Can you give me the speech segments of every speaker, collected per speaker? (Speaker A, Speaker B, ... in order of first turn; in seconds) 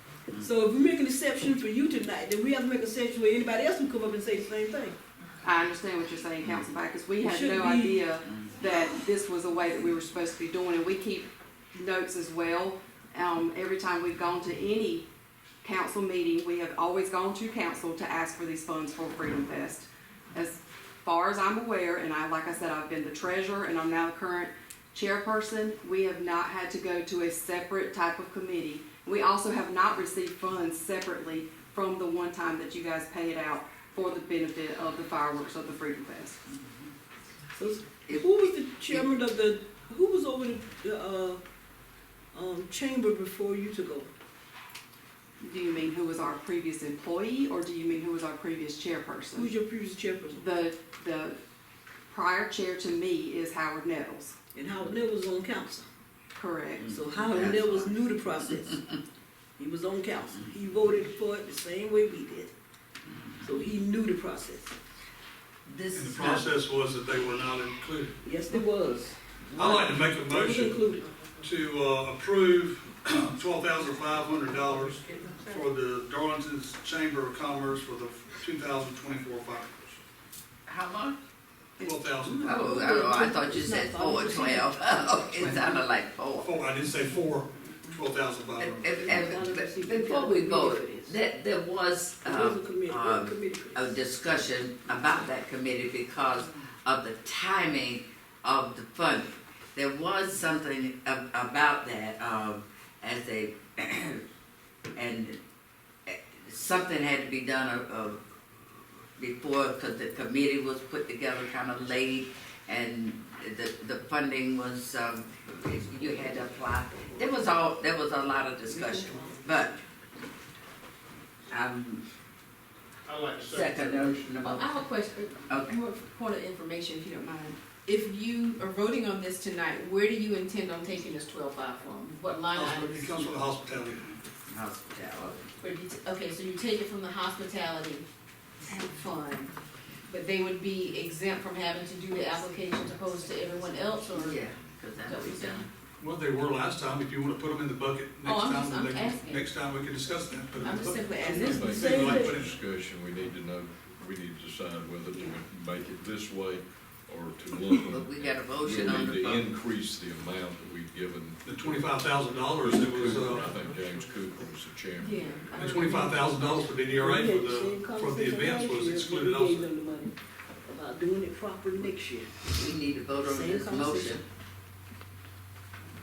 Speaker A: 0.4-5.0, 7.2-8.0, 37.5-41.4, 42.3-44.1, 49.3-50.4, 54.5-55.8, 56.9-58.8, 59.6-62.5, 63.4-64.7, 68.2-71.1, 82.2-85.9, 88.9-91.2, 92.2-93.9, 118.7-119.8, 151.2-152.4, 166.9-170.1, 170.6-172.4, 173.2-174.2
Speaker B: 5.4-15.1, 15.6-36.4, 45.4-49.5, 50.3-51.4, 52.1-54.4, 56.4-56.9
Speaker C: 38.1-39.0, 57.2-57.9, 65.7-66.5, 80.7-81.2, 82.4-86.5, 88.6-104.2, 105.0-105.4, 106.1-108.2, 109.2-119.7, 121.5-122.0, 123.4-124.9, 125.5-125.8, 134.5-135.5, 144.1-145.7, 157.9-159.5, 172.5-174.2
Speaker D: 65.9-68.2, 69.5-70.8, 71.4-80.0, 81.8-82.8, 86.4-89.0, 123.0-124.3, 132.5-134.1, 146.0-152.6, 161.4-163.6, 165.6-169.7
Speaker E: 124.4-133.3, 135.6-138.1, 138.7-139.5, 140.1-144.4, 145.0-145.7, 148.2-149.5, 150.6-152.1, 165.0-166.5
Speaker F: 151.4-161.4, 162.6-165.4